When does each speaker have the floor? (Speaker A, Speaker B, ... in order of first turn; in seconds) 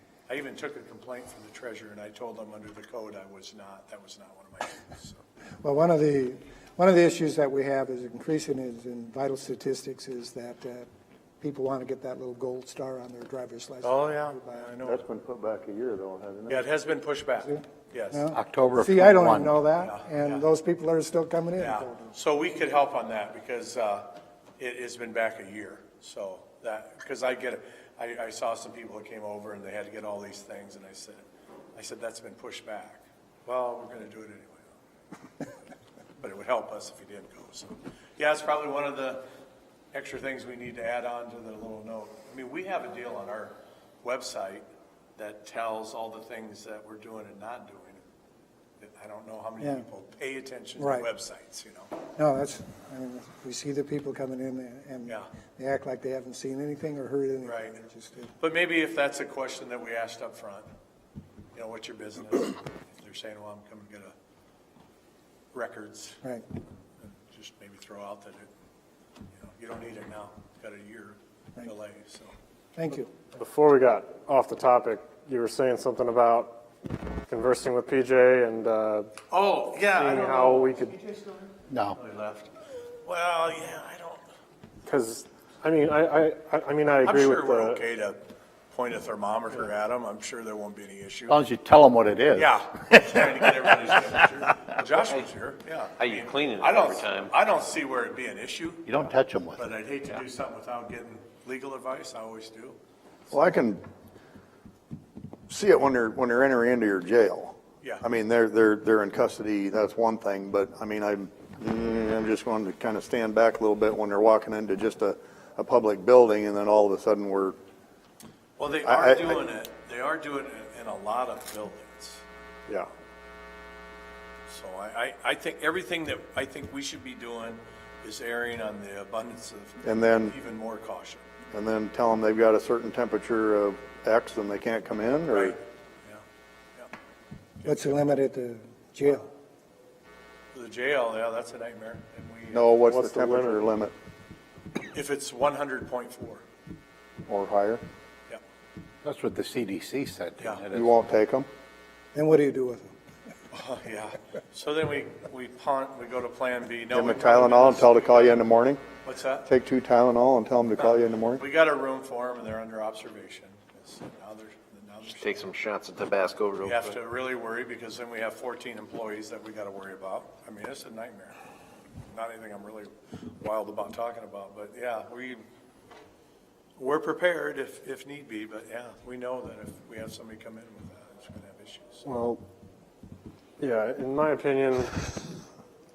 Speaker A: 0.3-5.2, 13.8-15.0, 16.5-18.3, 19.8-20.4, 21.6-31.2, 31.8-34.7, 36.2-39.2, 39.9-44.7, 45.2-48.0, 48.8-51.9, 57.4-57.9, 58.4-60.7, 61.5-64.1, 65.5-66.2, 67.0-68.5, 69.4-72.3, 79.3-82.5, 83.0-84.2, 87.0-91.4, 92.3-102.8, 118.6-122.2, 124.5-131.2, 135.3-136.2, 137.6-138.0, 140.5-142.7, 144.9-146.4, 150.4-150.7, 153.5-158.4, 159.0-159.5, 160.8-165.5, 166.6-171.4, 172.1-175.4, 176.8-182.0
Speaker B: 5.6-10.9, 11.4-14.8, 17.5-22.1, 49.6-49.9, 50.8-51.1, 52.2-58.3, 72.8-73.1, 137.6-139.3, 152.1-152.9
Speaker C: 14.8-16.7, 103.3-103.8, 105.5-117.6, 118.8-119.4, 129.8-130.3, 131.5-135.6, 142.5-143.9, 147.3-147.8, 150.7-151.5, 156.9-158.8, 159.5-161.4
Speaker D: 18.3-19.6, 81.7-82.0, 91.3-93.5, 98.9-99.6, 149.0-150.9
Speaker E: 73.2-76.6, 77.3-79.1, 79.9-81.0, 84.8-87.8, 142.8-143.6, 182.1-182.4, 183.6-185.2
Speaker F: 96.0-97.3, 165.0-167.0